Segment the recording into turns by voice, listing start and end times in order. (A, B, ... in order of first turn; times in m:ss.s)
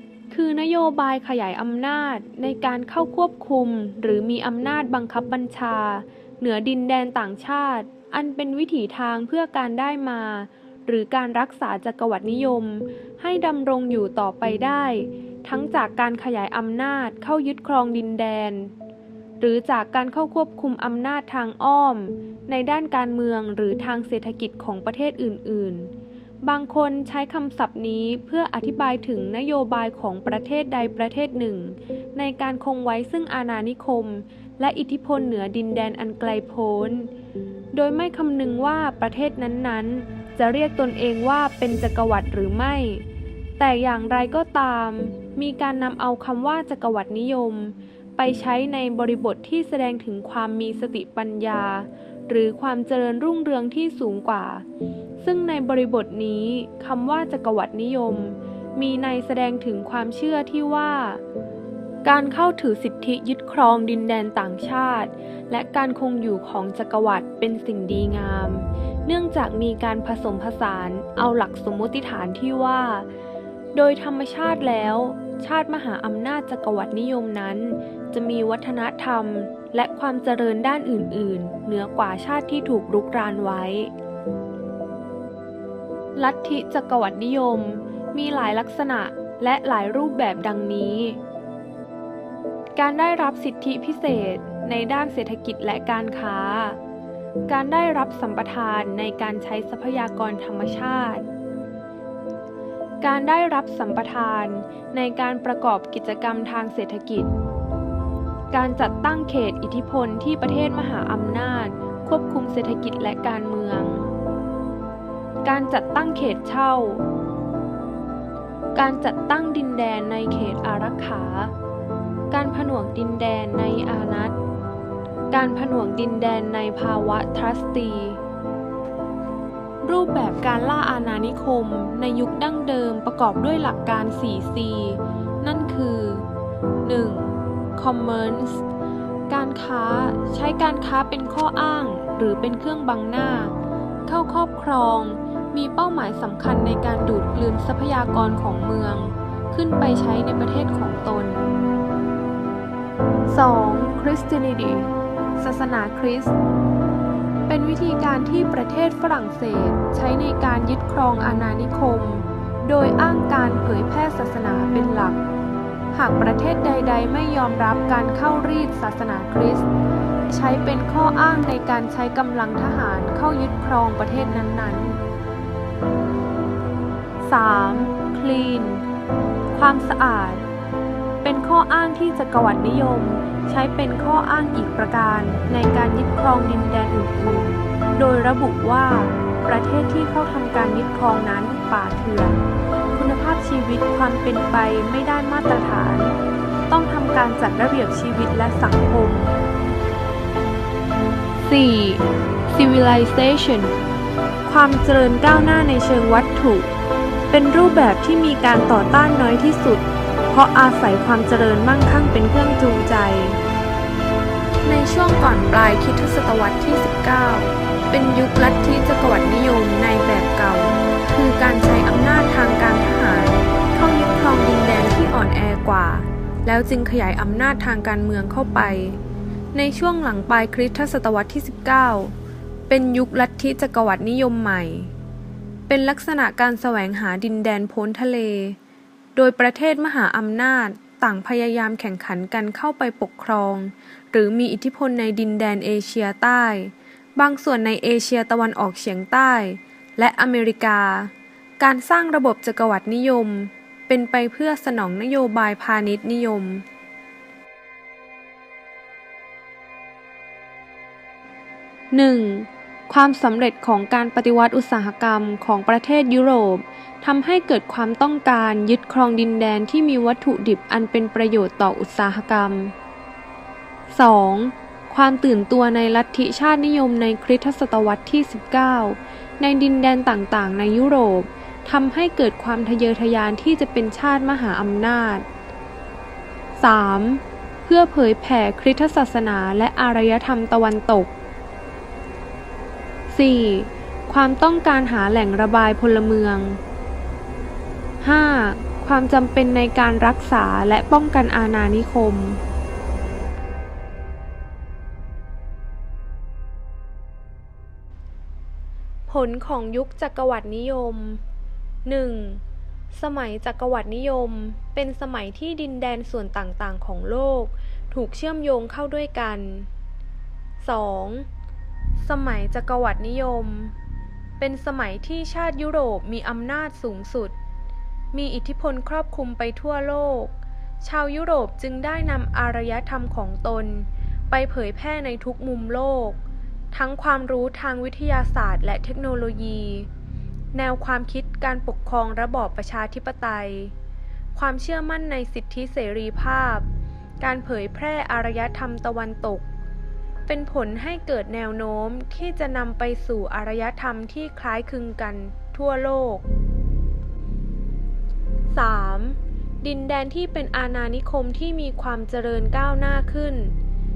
0:00.3-0:18.7 A
0:19.4-0:25.9 A
0:26.4-0:37.1 A
0:37.7-0:43.0 A
0:43.6-0:54.6 A
0:55.2-1:01.2 A
1:02.0-1:13.1 A
1:13.7-1:23.9 A
1:26.2-1:31.2 A
1:32.8-1:36.8 A
1:37.5-1:41.3 A
1:43.0-1:47.3 A
1:48.5-1:54.1 A
1:55.4-1:57.0 A
1:58.7-2:01.5 A
2:02.3-2:04.4 A
2:05.3-2:08.2 A
2:09.8-2:16.3 A
2:16.8-2:18.6 A
2:19.3-2:23.5 A
2:24.0-2:31.5 A
2:33.3-2:36.3 A
2:37.5-2:45.2 A
2:45.9-2:49.7 A
2:50.3-2:55.0 A
2:57.2-2:58.8 A
2:59.5-3:00.5 A
3:01.2-3:12.4 A
3:12.9-3:16.2 A
3:16.7-3:19.3 A
3:21.4-3:23.7 A
3:24.4-3:26.7 A
3:27.3-3:33.4 A
3:34.6-3:49.0 A
3:49.5-3:52.1 A
3:52.7-3:54.9 A
3:55.7-3:58.6 A
3:59.1-4:16.6 A
4:21.9-4:32.7 A
4:33.9-4:45.2 A
4:46.6-4:51.1 A
4:53.1-4:56.6 A
4:58.0-5:02.4 A
5:09.1-5:11.2 A
5:11.8-5:19.7 A
5:20.6-5:21.3 A
5:22.0-5:23.7 A
5:24.4-5:27.4 A
5:28.1-5:39.9 A
5:40.5-5:43.7 A
5:44.3-5:46.7 A
5:47.2-5:49.5 A
5:50.3-5:56.2 A
5:58.5-6:03.6 A